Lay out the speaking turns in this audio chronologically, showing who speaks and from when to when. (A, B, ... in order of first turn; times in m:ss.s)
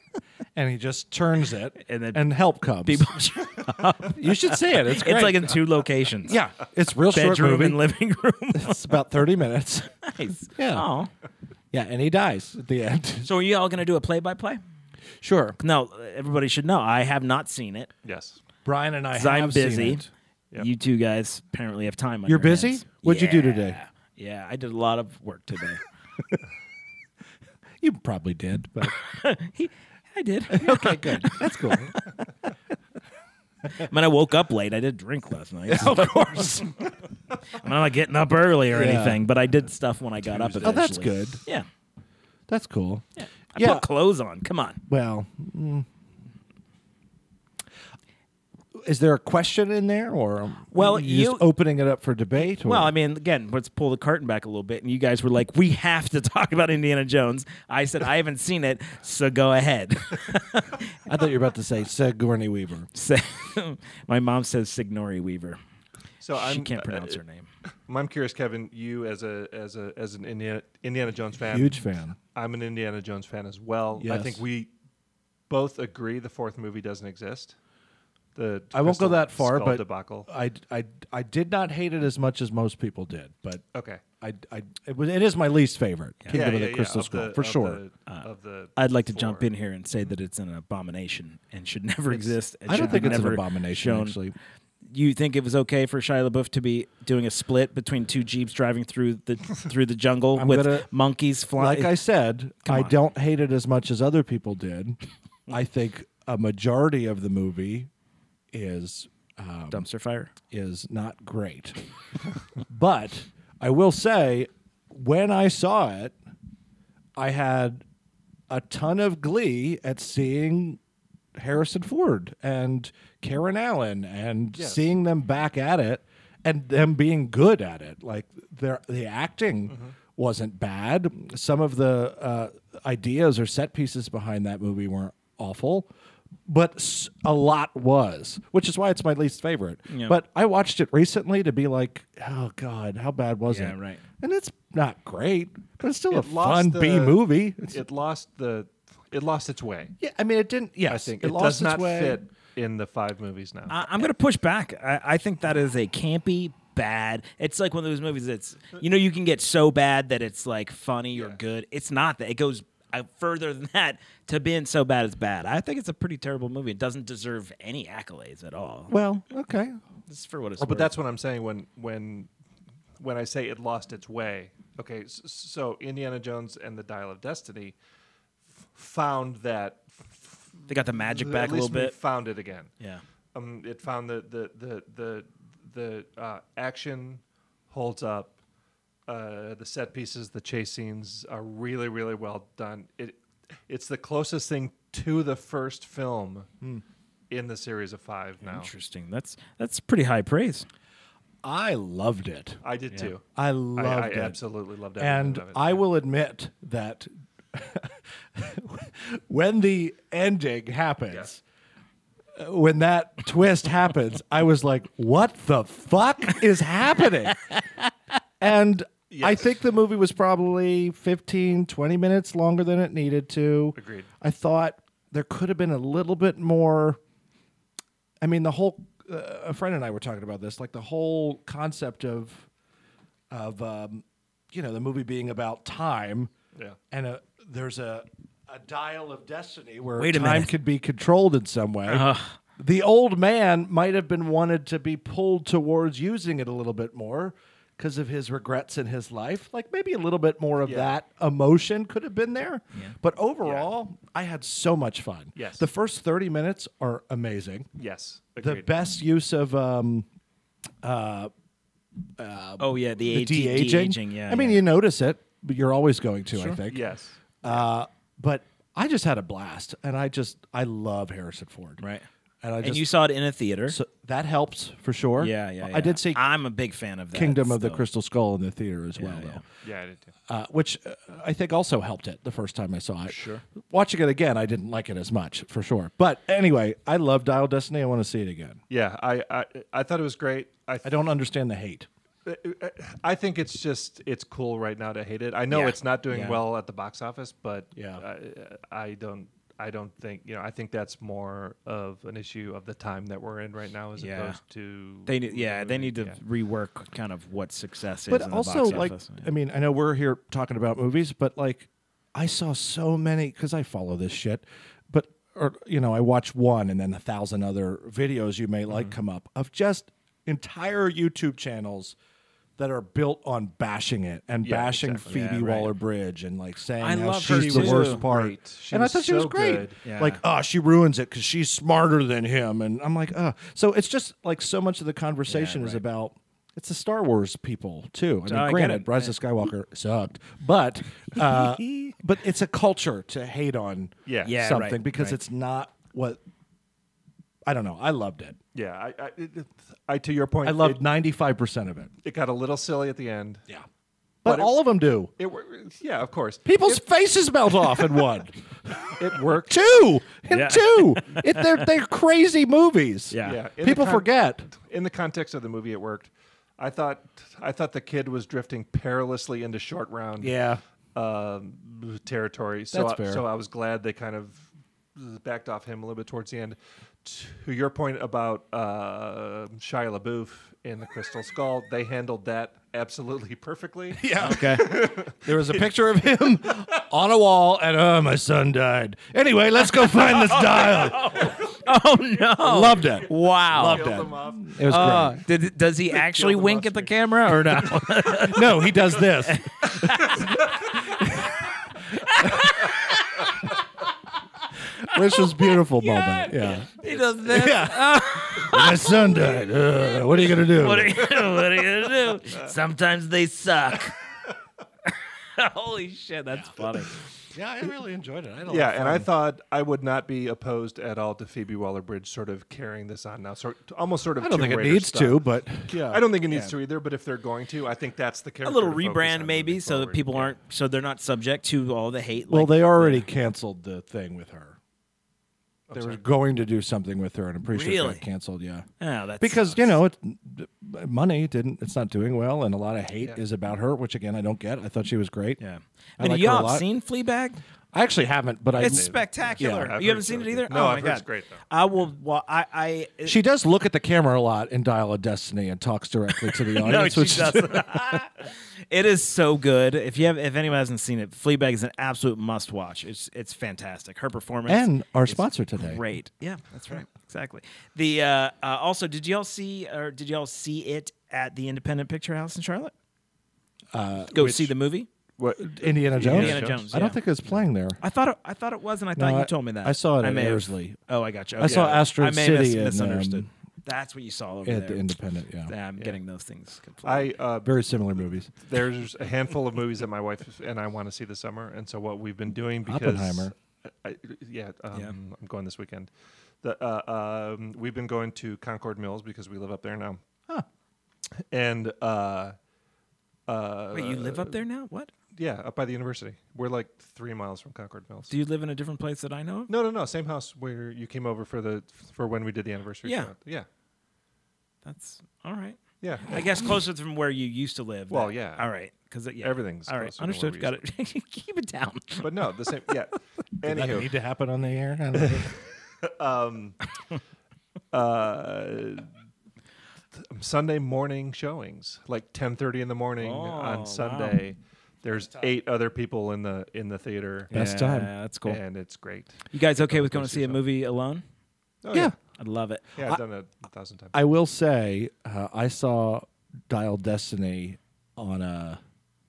0:00.6-0:03.2 A
0:01.8-0:02.3 B
0:02.8-0:06.4 B
0:04.0-0:05.6 A
0:06.3-0:07.8 A
0:07.1-0:08.9 B
0:08.6-0:10.8 A
0:10.0-0:11.1 B
0:11.7-0:13.3 A
0:13.2-0:14.6 B
0:15.2-0:15.6 A
0:15.6-0:17.9 B
0:18.0-0:18.4 C
0:18.6-0:20.1 A
0:19.1-0:20.0 B
0:20.6-0:25.8 B
0:22.3-0:23.8 A
0:27.8-0:29.0 A
0:29.0-0:32.2 B
0:30.5-0:32.0 A
0:33.7-0:36.9 B
0:35.7-0:36.6 A
0:37.5-0:41.7 B
0:38.7-0:39.2 A
0:40.4-0:40.8 C
0:40.6-0:41.4 A
0:42.5-0:43.9 A
0:43.2-0:44.8 B
0:44.9-0:45.9 A
0:48.8-0:52.9 A
0:50.7-0:51.5 B
0:52.4-1:00.9 B
1:01.1-1:02.9 A
1:02.9-1:05.6 B
1:06.2-1:07.2 C
1:06.3-1:07.5 B
1:07.9-1:11.8 C
1:11.5-1:12.2 A
1:12.4-1:14.7 C
1:14.0-1:14.4 A
1:15.5-1:17.6 C
1:18.4-1:20.3 C
1:18.7-1:23.6 A
1:23.7-1:24.0 C
1:24.2-1:27.8 A
1:26.3-1:29.5 C
1:28.1-1:34.2 B
1:32.1-1:33.2 C
1:32.7-1:34.4 A
1:34.9-1:42.0 B
1:40.4-1:40.9 A
1:41.6-1:45.0 A
1:42.6-1:43.0 B
1:45.5-1:47.9 A
1:48.5-1:49.8 A
1:49.7-1:50.3 B
1:50.5-1:51.8 A
1:52.7-1:56.2 A
1:57.2-1:57.8 A
1:58.5-2:00.8 A
2:01.4-2:15.9 A
2:04.6-2:04.9 C
2:09.7-2:10.0 C
2:16.5-2:27.8 A
2:19.9-2:20.2 B
2:23.5-2:24.0 B
2:26.1-2:30.0 C
2:30.0-2:32.2 A
2:30.9-2:33.9 C
2:33.7-2:49.0 B
2:48.9-2:49.8 A
2:50.1-2:50.9 B
2:50.6-2:52.3 C
2:53.0-2:57.8 C
2:58.8-3:02.7 C
3:00.7-3:02.0 B
3:03.3-3:08.4 C
3:09.1-3:16.5 C
3:17.3-3:18.7 C
3:18.4-3:20.7 B
3:21.4-3:22.6 A
3:22.6-3:23.2 C
3:23.4-3:24.4 A
3:23.8-3:25.8 C
3:25.0-3:31.4 A
3:32.4-3:37.6 A
3:38.4-3:47.0 A
3:39.1-3:39.6 C
3:43.8-3:44.1 C
3:48.2-3:52.5 A
3:53.3-3:56.3 A
3:56.9-4:17.7 A
4:00.0-4:00.5 B
4:01.9-4:02.4 B
4:10.6-4:10.9 C
4:13.4-4:13.7 C
4:15.4-4:15.7 C
4:17.8-4:18.7 C
4:18.4-4:20.1 A
4:20.8-4:21.3 A
4:22.2-4:26.8 A
4:22.6-4:24.6 B
4:26.3-4:26.6 B
4:26.7-4:27.5 C
4:27.4-4:31.8 A
4:31.8-4:32.1 B
4:32.4-4:33.0 A
4:32.6-4:33.8 B
4:33.7-4:36.2 A
4:35.2-4:37.9 B
4:37.1-4:39.4 A
4:39.0-4:39.4 B
4:39.6-4:40.1 C
4:40.3-4:48.6 A
4:43.1-4:43.4 B
4:48.7-4:51.0 C
4:50.8-4:51.9 A
4:52.2-5:06.2 C
4:55.5-4:56.4 B
4:57.8-4:58.0 A
5:04.0-5:04.4 B
5:05.1-5:09.3 B
5:08.1-5:22.0 A
5:22.6-5:46.2 A
5:24.4-5:25.5 C
5:25.1-5:25.7 B
5:26.8-5:28.0 B
5:27.2-5:29.8 C
5:29.8-5:30.2 B
5:35.3-5:35.8 B
5:38.3-5:39.2 B
5:41.3-5:41.9 B
5:44.1-5:44.4 C
5:44.2-5:45.2 B
5:47.5-5:48.4 A
5:48.5-5:50.8 C
5:50.4-5:51.9 A
5:52.0-5:53.4 C
5:54.2-5:55.1 A
5:54.2-5:56.8 C
5:56.4-6:04.5 A
5:59.0-5:59.5 C
6:00.3-6:01.6 B
6:03.1-6:03.4 B
6:03.2-6:10.4 C
6:10.2-6:10.6 A
6:11.0-6:25.7 C
6:12.7-6:13.2 A
6:24.0-6:31.4 A
6:24.2-6:24.7 B
6:29.8-6:33.9 B
6:30.8-6:31.2 C
6:32.4-6:35.2 A
6:33.2-6:35.2 C
6:34.6-6:40.4 B
6:35.9-6:37.6 C
6:38.1-6:41.3 A
6:42.0-6:43.5 B
6:42.0-6:42.6 A
6:44.8-6:51.1 A
6:44.9-6:49.2 B
6:50.2-6:54.0 B
6:55.4-6:57.0 B
6:57.3-6:59.1 A
6:58.5-7:10.4 C
7:04.2-7:06.0 A
7:08.4-7:13.1 B
7:12.3-7:14.6 A
7:15.7-7:16.0 C
7:15.7-7:18.7 A
7:17.5-7:18.0 B
7:18.8-7:19.8 B
7:19.2-7:25.4 A
7:25.4-7:27.4 B
7:26.0-7:26.7 A
7:27.7-7:29.8 A
7:28.6-7:33.2 B
7:28.6-7:31.4 C
7:33.0-7:38.1 A
7:36.2-7:52.7 B
7:44.5-7:45.8 A
7:53.7-7:54.5 A
7:54.1-7:54.9 B
7:55.2-7:56.7 C
7:55.4-7:57.8 A
7:56.0-7:57.0 B
7:57.8-8:04.8 B
7:59.0-8:00.8 A
8:01.4-8:03.3 A
8:01.5-8:01.7 C
8:04.4-8:05.5 A
8:05.5-8:07.2 B
8:06.8-8:07.8 C
8:07.4-8:08.3 A
8:08.3-8:15.9 C
8:12.7-8:13.3 A
8:16.4-8:20.0 C
8:21.3-8:22.4 C
8:23.3-8:24.4 C
8:23.7-8:24.9 B
8:25.2-8:28.1 C
8:28.1-8:29.5 B
8:29.5-8:33.5 C
8:32.8-8:33.1 B
8:34.6-8:42.1 B
8:35.8-8:36.5 C
8:37.9-8:38.5 C
8:39.2-8:40.6 C
8:42.0-8:43.9 C
8:43.4-8:45.3 A
8:44.9-8:46.6 C
8:47.7-8:48.9 C
8:50.0-8:57.3 C
8:53.0-8:54.2 B
8:57.3-8:58.4 B
8:57.3-8:57.9 A
8:58.2-9:00.4 C
8:59.3-9:01.0 B
9:01.6-9:02.0 C
9:02.2-9:02.7 B
9:02.8-9:04.0 C
9:03.9-9:08.6 A